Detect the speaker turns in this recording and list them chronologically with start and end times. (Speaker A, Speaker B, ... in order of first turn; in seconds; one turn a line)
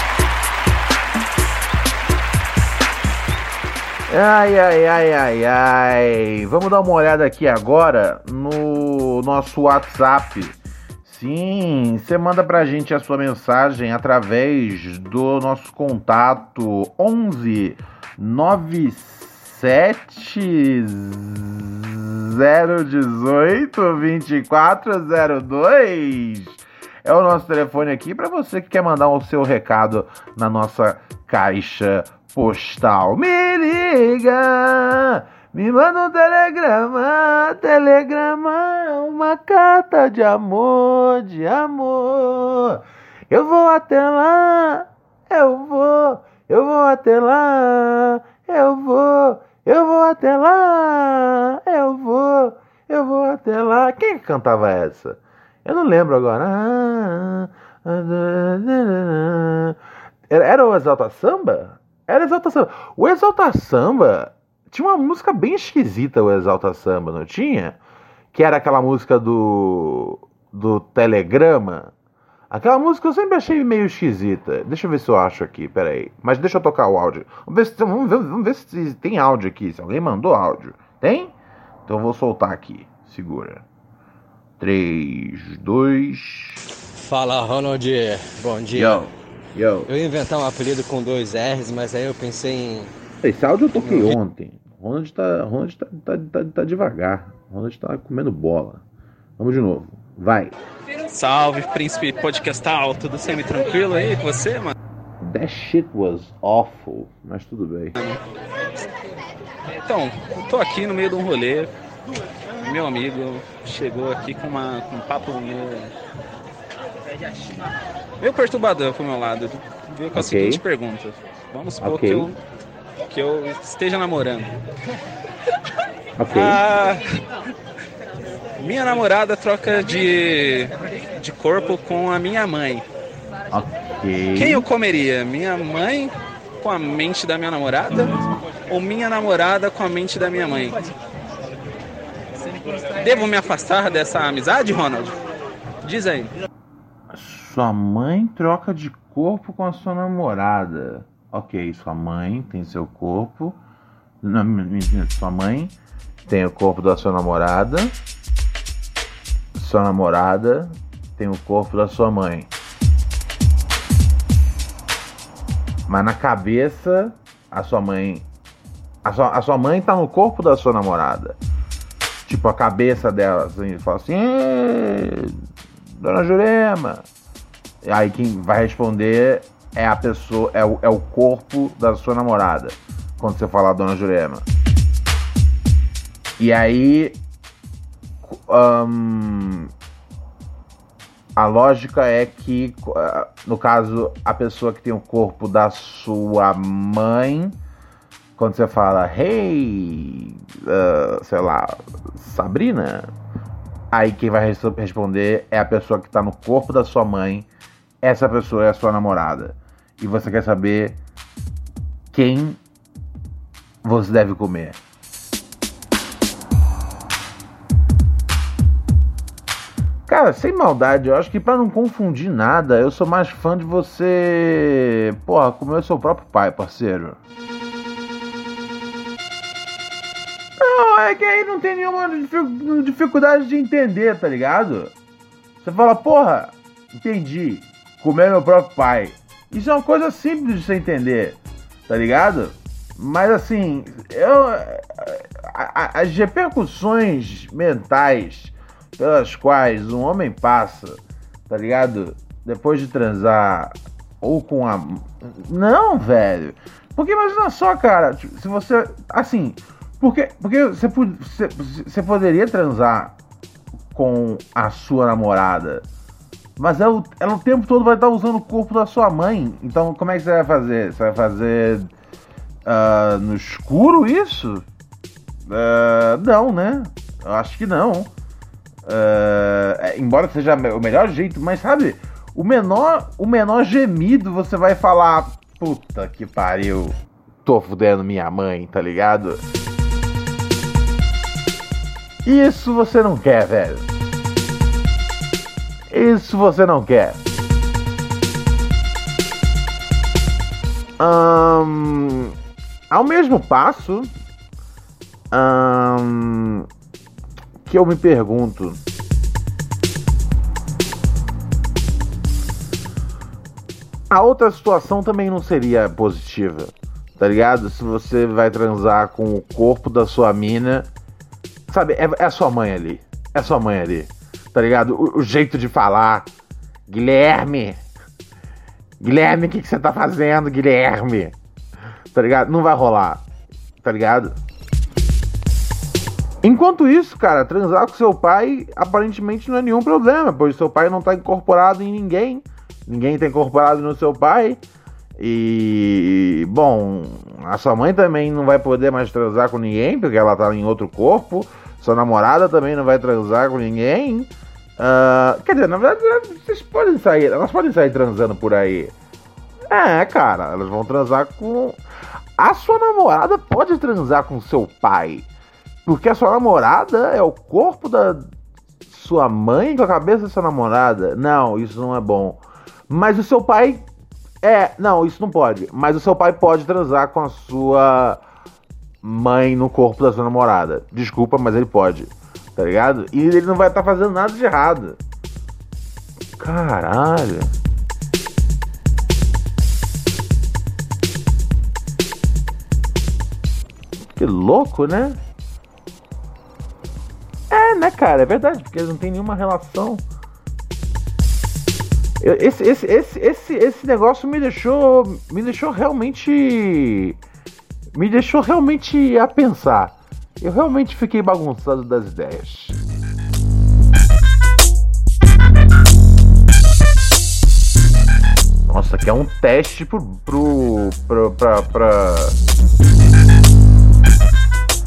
Speaker A: 4.1-59.8
Speaker A: 60.3-67.8
Speaker A: 68.3-71.9
Speaker A: 72.5-81.3
Speaker A: 81.9-83.6
Speaker A: 84.6-86.6
Speaker B: 87.0-89.1
Speaker A: 88.7-89.9
Speaker B: 89.9-92.9
Speaker A: 93.2-98.8
Speaker B: 93.8-94.1
Speaker A: 99.4-100.5
Speaker C: 101.1-104.7
Speaker A: 105.2-107.9
Speaker C: 108.0-108.2
Speaker C: 109.8-111.7
Speaker C: 112.6-115.9
Speaker C: 118.2-122.4
Speaker A: 120.1-120.6
Speaker A: 121.8-122.3
Speaker C: 123.0-124.6
Speaker A: 126.2-126.6
Speaker C: 126.3-127.2
Speaker C: 128.6-132.8
Speaker A: 133.5-134.7
Speaker C: 134.3-138.1
Speaker C: 138.7-140.9
Speaker C: 142.8-145.2
Speaker C: 145.8-146.3
Speaker A: 147.1-153.6
Speaker A: 154.2-155.7
Speaker A: 156.3-157.9
Speaker A: 159.5-162.5
Speaker A: 165.9-168.2
Speaker A: 169.0-171.4
Speaker A: 172.2-175.4
Speaker A: 176.0-177.0
Speaker A: 177.8-184.4
Speaker A: 186.4-187.2
Speaker A: 188.2-189.7
Speaker A: 191.3-197.6
Speaker A: 198.4-203.1
Speaker A: 203.9-207.5
Speaker A: 208.0-211.0
Speaker A: 212.1-212.6
Speaker A: 213.8-214.8
Speaker A: 220.1-227.2
Speaker A: 230.6-234.9
Speaker A: 235.6-263.1
Speaker A: 263.9-265.8
Speaker A: 266.6-271.9
Speaker A: 272.6-274.6
Speaker A: 275.5-278.1
Speaker A: 278.9-289.4
Speaker A: 292.2-293.9
Speaker A: 295.9-297.2
Speaker A: 301.0-302.3
Speaker A: 302.9-304.1
Speaker A: 305.3-306.7
Speaker A: 307.6-308.8
Speaker A: 314.1-320.9
Speaker A: 321.7-326.3
Speaker A: 326.9-327.8
Speaker A: 329.0-331.4
Speaker A: 332.1-333.2
Speaker A: 333.8-334.4
Speaker A: 336.4-344.6
Speaker A: 345.2-358.9
Speaker A: 359.7-361.8
Speaker A: 362.4-365.3
Speaker A: 365.9-368.3
Speaker A: 368.9-373.8
Speaker A: 374.4-378.2
Speaker A: 379.0-385.0
Speaker A: 386.4-387.5
Speaker A: 394.1-395.2
Speaker A: 397.5-400.0
Speaker A: 402.2-407.2
Speaker A: 407.9-412.8
Speaker A: 418.7-422.4